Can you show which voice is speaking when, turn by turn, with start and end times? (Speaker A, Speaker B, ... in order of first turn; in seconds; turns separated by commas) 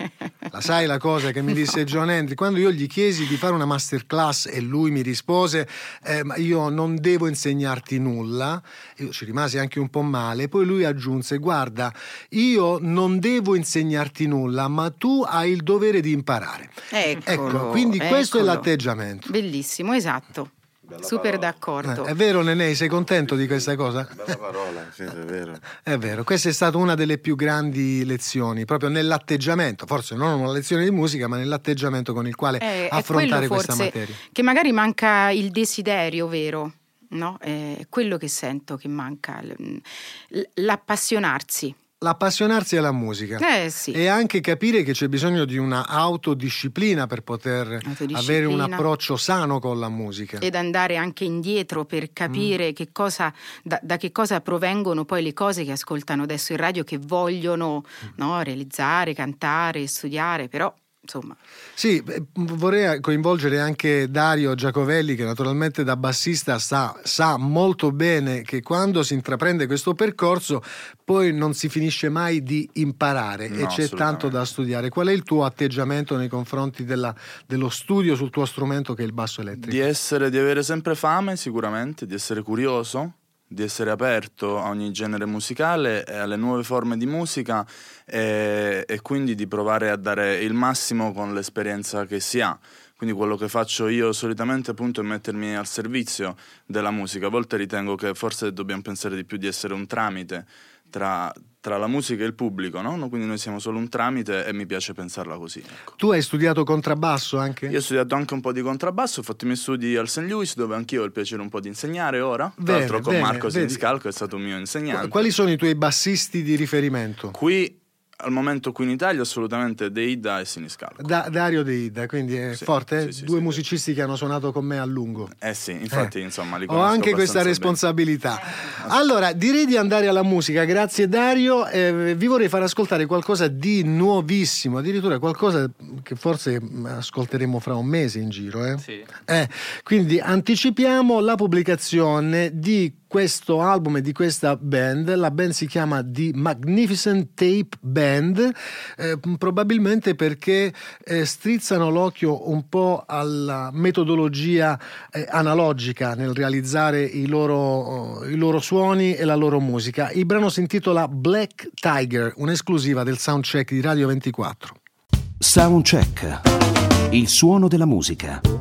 Speaker A: 0.5-19.3, Speaker B: 16.9-18.7, Speaker B: 19.3-22.1, Speaker C: 20.9-21.6, Speaker A: 21.8-24.3, Speaker C: 24.1-25.6, Speaker A: 25.7-34.2, Speaker B: 32.6-41.8, Speaker A: 42.0-50.5, Speaker B: 43.4-44.0, Speaker B: 47.8-48.8, Speaker B: 50.4-61.4, Speaker A: 61.8-79.8, Speaker D: 73.5-74.4, Speaker D: 79.5-105.9, Speaker A: 106.0-107.8, Speaker D: 107.7-115.3, Speaker A: 112.6-113.8, Speaker A: 114.9-117.4, Speaker D: 117.3-121.0, Speaker A: 121.0-125.3, Speaker D: 122.5-123.6, Speaker D: 125.3-127.8, Speaker A: 126.7-164.8, Speaker E: 165.4-166.5, Speaker E: 167.1-168.4